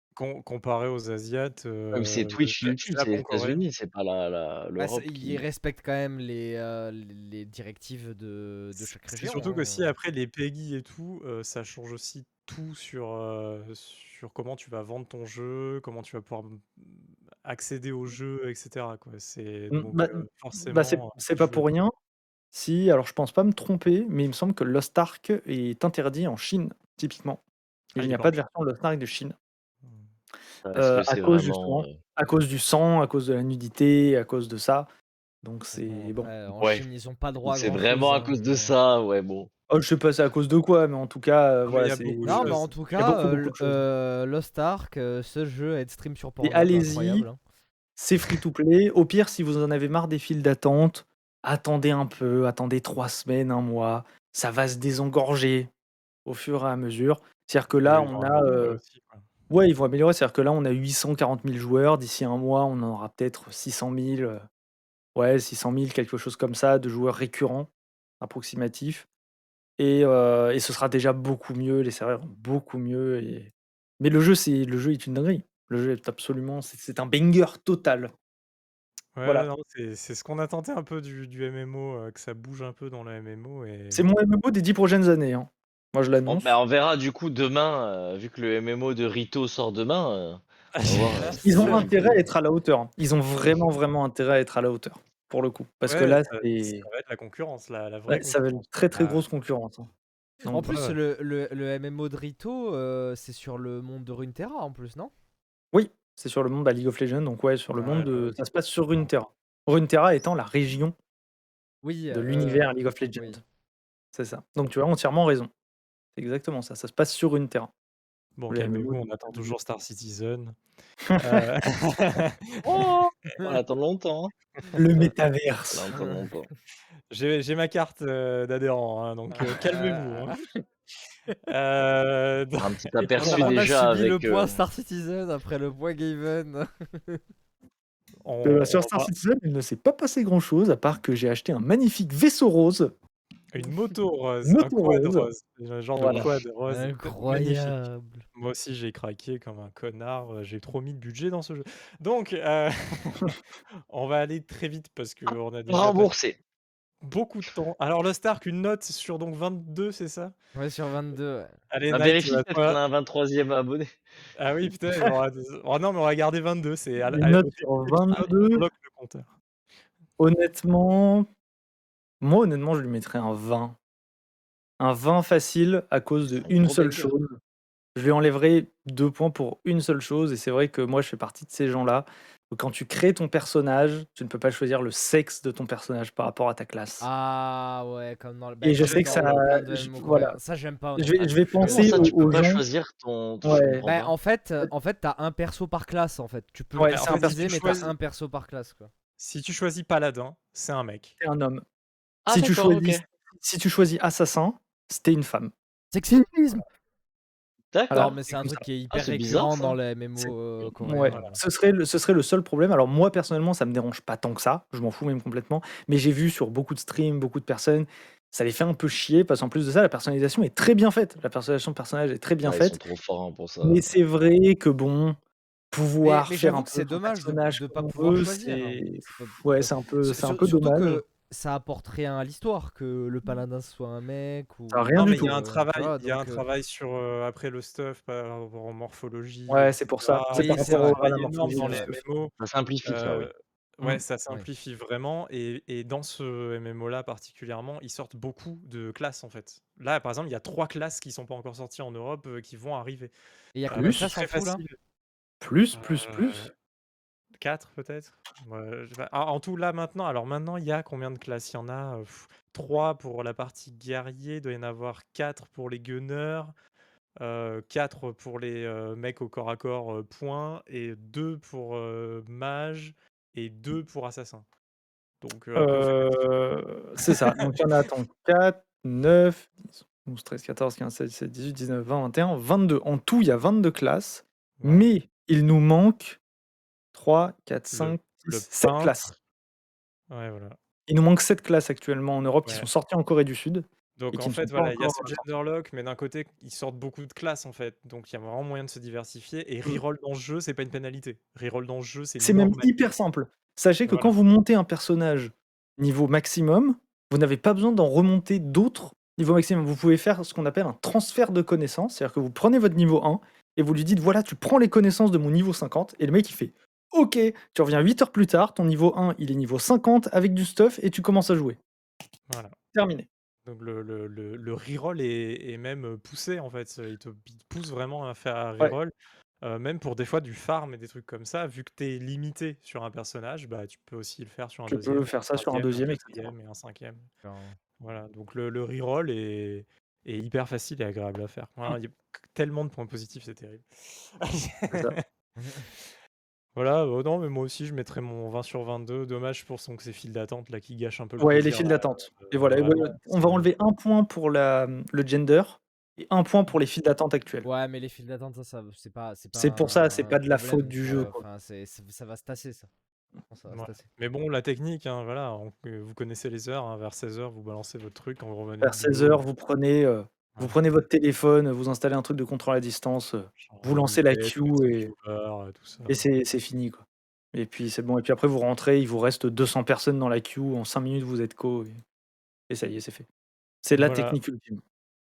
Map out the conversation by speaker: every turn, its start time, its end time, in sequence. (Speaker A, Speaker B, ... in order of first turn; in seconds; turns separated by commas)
Speaker A: 0.1-3.6, Speaker B: 1.9-5.4, Speaker C: 4.8-9.9, Speaker A: 8.8-21.6, Speaker D: 19.7-21.9, Speaker D: 22.5-27.4, Speaker D: 27.9-29.4, Speaker A: 28.0-28.4, Speaker B: 30.6-32.0, Speaker D: 30.8-34.9, Speaker D: 35.4-36.3, Speaker C: 35.7-38.7, Speaker B: 37.4-39.5, Speaker D: 39.7-43.8, Speaker A: 41.6-42.7, Speaker C: 42.2-47.4, Speaker D: 46.4-47.3, Speaker D: 48.0-55.7, Speaker D: 56.3-58.8, Speaker A: 57.8-59.3, Speaker D: 59.5-64.4, Speaker D: 65.2-67.7, Speaker D: 68.2-69.1, Speaker D: 69.8-78.1, Speaker A: 79.2-84.1, Speaker D: 83.9-86.5, Speaker B: 86.3-92.2, Speaker A: 90.8-91.9, Speaker C: 91.2-92.2, Speaker D: 91.4-96.9, Speaker A: 95.8-98.4, Speaker D: 98.1-99.9, Speaker C: 98.9-99.2, Speaker C: 100.4-105.1, Speaker D: 100.4-100.7, Speaker A: 100.5-101.0, Speaker D: 105.7-111.0, Speaker C: 107.8-108.4, Speaker C: 111.8-113.4, Speaker D: 112.1-113.4, Speaker D: 114.1-115.5, Speaker D: 116.2-117.7, Speaker A: 118.4-120.6, Speaker D: 118.5-119.5, Speaker D: 121.1-121.4, Speaker A: 121.2-122.9, Speaker B: 122.7-124.3, Speaker D: 124.8-125.9, Speaker B: 125.7-126.5, Speaker C: 126.0-126.3, Speaker A: 127.1-130.4, Speaker C: 129.3-130.3, Speaker A: 131.5-133.6, Speaker B: 132.6-134.6, Speaker C: 133.2-137.2, Speaker A: 138.2-139.1, Speaker D: 138.4-142.9, Speaker A: 143.5-147.8, Speaker D: 144.4-145.3, Speaker D: 146.0-146.3, Speaker B: 146.0-146.3, Speaker C: 146.7-148.2, Speaker A: 148.3-153.4, Speaker A: 153.9-156.1, Speaker B: 155.7-156.4, Speaker A: 157.0-160.3, Speaker C: 160.6-161.6, Speaker A: 161.7-162.8, Speaker B: 161.9-164.0, Speaker A: 164.4-169.3, Speaker D: 167.1-168.7, Speaker D: 170.2-171.3, Speaker D: 172.2-173.8, Speaker D: 174.8-177.4, Speaker B: 176.4-177.1, Speaker D: 177.9-187.1, Speaker C: 187.0-192.0, Speaker D: 188.6-190.4, Speaker A: 188.8-189.3, Speaker D: 191.0-192.7, Speaker A: 191.6-192.2, Speaker B: 191.7-194.1, Speaker D: 193.4-193.8, Speaker C: 193.9-198.9, Speaker D: 196.8-197.9, Speaker A: 196.9-197.9, Speaker A: 199.2-201.2, Speaker D: 201.2-201.6, Speaker B: 202.3-203.0, Speaker D: 202.3-205.5, Speaker C: 205.9-206.7, Speaker B: 207.7-208.2, Speaker D: 207.9-208.7, Speaker C: 207.9-211.4, Speaker B: 208.9-209.8, Speaker D: 210.8-222.8, Speaker A: 211.1-211.4, Speaker B: 222.4-224.0, Speaker D: 223.6-225.2, Speaker D: 225.7-231.0, Speaker C: 226.0-236.4, Speaker D: 234.7-235.3, Speaker A: 234.9-242.3, Speaker D: 239.5-242.0, Speaker C: 240.3-242.0, Speaker B: 242.4-243.3, Speaker A: 242.8-253.1, Speaker C: 253.6-254.6, Speaker A: 253.7-254.8, Speaker D: 253.7-254.1, Speaker D: 255.4-256.5, Speaker A: 255.7-256.5, Speaker A: 257.4-266.5, Speaker A: 267.2-274.5, Speaker A: 275.2-276.3, Speaker D: 275.6-286.2, Speaker A: 277.0-277.6, Speaker A: 284.6-284.9, Speaker D: 286.9-289.1, Speaker A: 287.7-289.1, Speaker A: 290.1-290.6, Speaker D: 290.9-295.2, Speaker A: 294.0-302.7, Speaker D: 302.2-321.6, Speaker A: 303.9-304.1, Speaker A: 322.3-322.6, Speaker D: 322.7-323.1, Speaker A: 323.4-337.1, Speaker D: 334.7-336.3, Speaker C: 337.2-337.6, Speaker A: 337.8-345.0, Speaker D: 344.7-344.9, Speaker C: 345.4-345.6, Speaker A: 346.6-353.5, Speaker D: 351.2-357.5, Speaker C: 357.4-362.7, Speaker D: 359.4-361.2, Speaker C: 363.3-363.9, Speaker A: 363.5-369.2, Speaker D: 368.6-374.9, Speaker A: 373.4-376.1, Speaker D: 375.9-381.8, Speaker D: 382.5-383.1, Speaker D: 383.6-384.6, Speaker A: 383.8-384.2